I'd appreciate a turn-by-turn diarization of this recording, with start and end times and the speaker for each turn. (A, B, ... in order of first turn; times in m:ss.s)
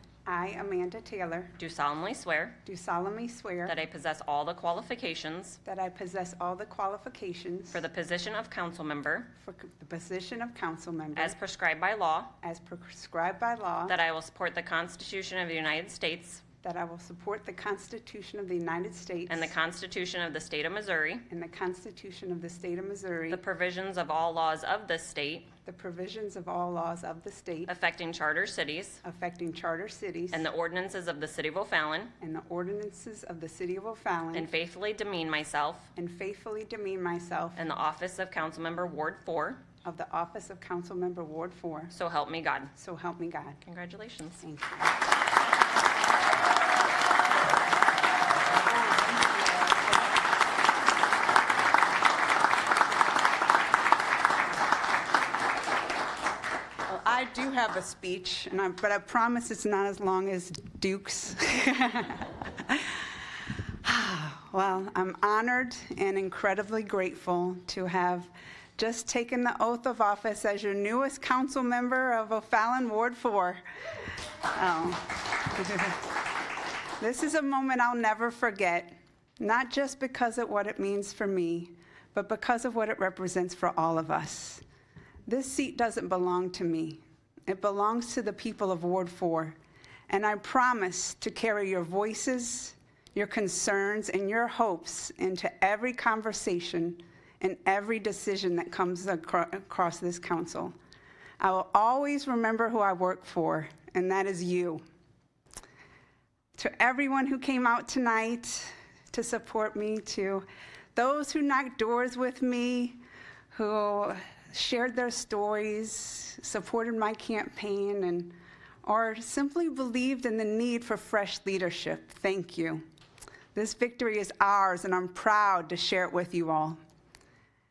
0:00.2-0:01.6 A
0:01.6-0:02.6 B
0:02.6-0:03.8 A
0:03.6-0:05.6 B
0:05.6-0:07.8 A
0:07.7-0:09.3 B
0:09.4-0:11.4 A
0:11.2-0:12.3 B
0:12.4-0:14.0 A
0:13.9-0:16.4 B
0:16.6-0:19.5 A
0:19.3-0:21.2 B
0:21.3-0:23.4 A
0:23.3-0:25.5 B
0:25.6-0:27.7 A
0:27.7-0:29.0 B
0:29.0-0:30.5 A
0:30.3-0:32.1 B
0:32.2-0:34.5 A
0:34.3-0:35.9 B
0:36.0-0:37.6 A
0:37.6-0:39.6 B
0:39.8-0:41.9 A
0:41.9-0:42.7 B
0:42.8-0:43.6 A
0:43.6-0:44.4 B
0:44.4-0:44.9 A
0:48.5-0:50.2 A
0:56.9-1:03.0 A
1:03.8-1:13.6 A
1:14.5-1:16.1 A
1:17.0-1:24.6 A
1:25.2-1:29.6 A
1:30.1-1:40.7 A
1:41.4-1:44.8 A
1:46.6-1:53.0 A
1:53.5-2:02.8 A
2:03.5-2:06.8 A